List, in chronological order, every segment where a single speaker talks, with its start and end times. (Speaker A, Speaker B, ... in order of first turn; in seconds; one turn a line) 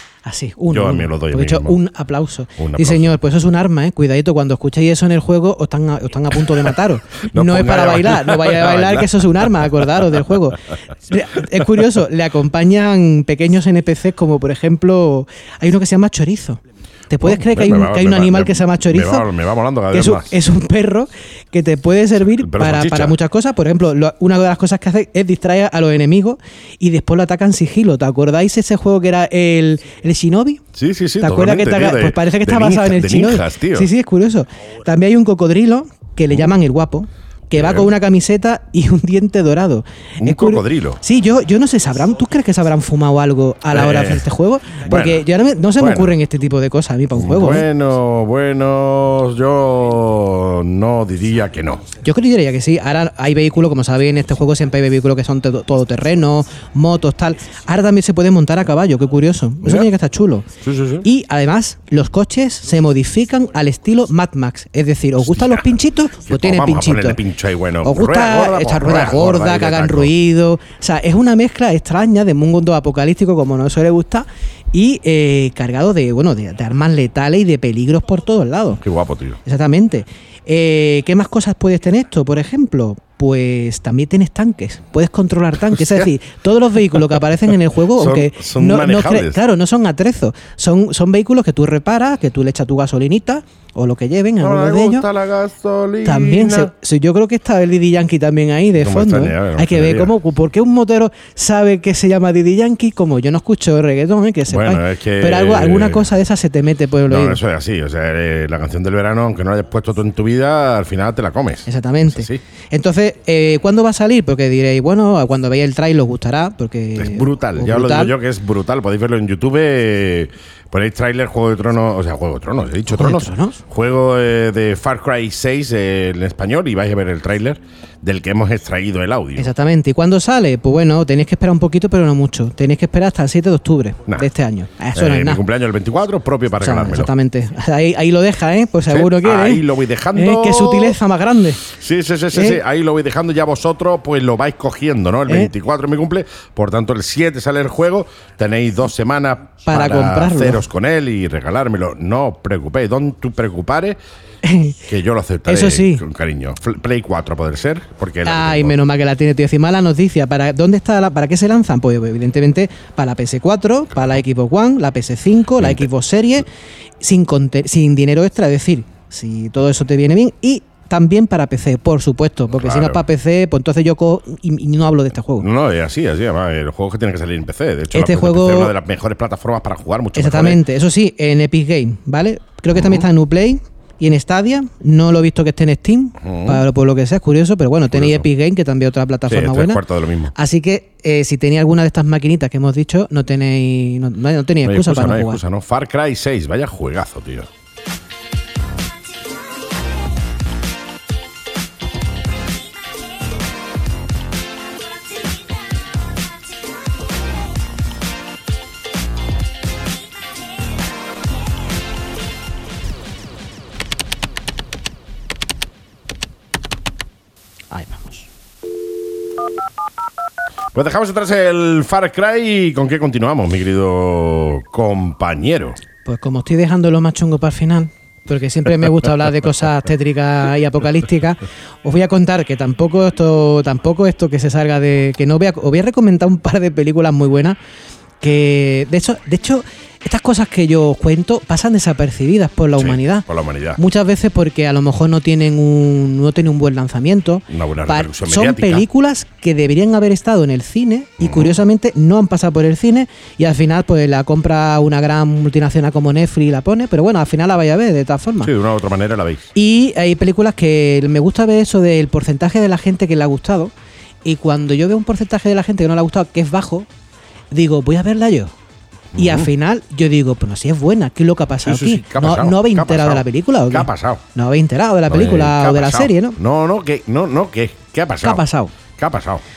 Speaker A: 0.2-19.3
Speaker B: 0.7-1.8
Speaker B: 2.6-3.2
Speaker B: 7.3-10.2
Speaker B: 17.2-20.4
Speaker A: 19.9-30.6
Speaker B: 22.2-23.2
Speaker B: 30.7-33.9
Speaker A: 31.2-47.7
Speaker B: 37.5-37.9
Speaker B: 40.2-41.0
Speaker B: 43.7-44.3
Speaker B: 44.8-46.2
Speaker B: 47.1-51.9
Speaker A: 52.0-60.5
Speaker B: 59.6-59.9
Speaker B: 60.6-61.1
Speaker A: 61.0-67.2
Speaker B: 65.2-65.7
Speaker B: 66.3-70.1
Speaker A: 67.8-78.8
Speaker B: 78.8-79.4
Speaker A: 79.5-95.1
Speaker B: 85.7-86.1
Speaker B: 87.9-89.4
Speaker B: 94.4-96.7
Speaker A: 96.0-107.4
Speaker B: 98.8-100.1
Speaker B: 104.5-106.1
Speaker B: 107.1-112.4
Speaker A: 111.7-118.2
Speaker B: 117.0-129.5
Speaker A: 122.9-123.6
Speaker A: 129.4-135.4
Speaker B: 134.1-134.3
Speaker B: 134.9-137.1
Speaker A: 136.6-141.6
Speaker B: 138.9-141.0
Speaker B: 141.7-154.0
Speaker A: 142.3-142.6
Speaker A: 149.7-150.6
Speaker A: 154.4-154.8
Speaker B: 154.8-158.8
Speaker A: 155.5-156.1
Speaker A: 158.2-166.5
Speaker B: 165.6-165.9
Speaker A: 167.0-175.5
Speaker B: 172.6-173.0
Speaker B: 175.4-180.6
Speaker A: 177.9-178.7
Speaker A: 180.2-189.8
Speaker B: 182.8-183.1
Speaker B: 186.2-186.6
Speaker B: 187.9-188.3
Speaker B: 189.3-190.3
Speaker A: 190.3-195.4
Speaker B: 194.6-197.5
Speaker A: 217.7-218.3
Speaker B: 220.7-225.8
Speaker A: 226.1-237.6
Speaker A: 238.2-258.5
Speaker B: 242.8-243.8
Speaker B: 247.5-248.9
Speaker B: 251.2-251.6
Speaker B: 258.4-259.5
Speaker A: 259.6-263.7
Speaker A: 264.2-266.9
Speaker A: 267.5-268.5
Speaker B: 269.1-269.5
Speaker A: 269.1-276.4
Speaker B: 271.6-274.2
Speaker B: 275.1-278.4
Speaker A: 278.2-278.7
Speaker B: 279.0-279.4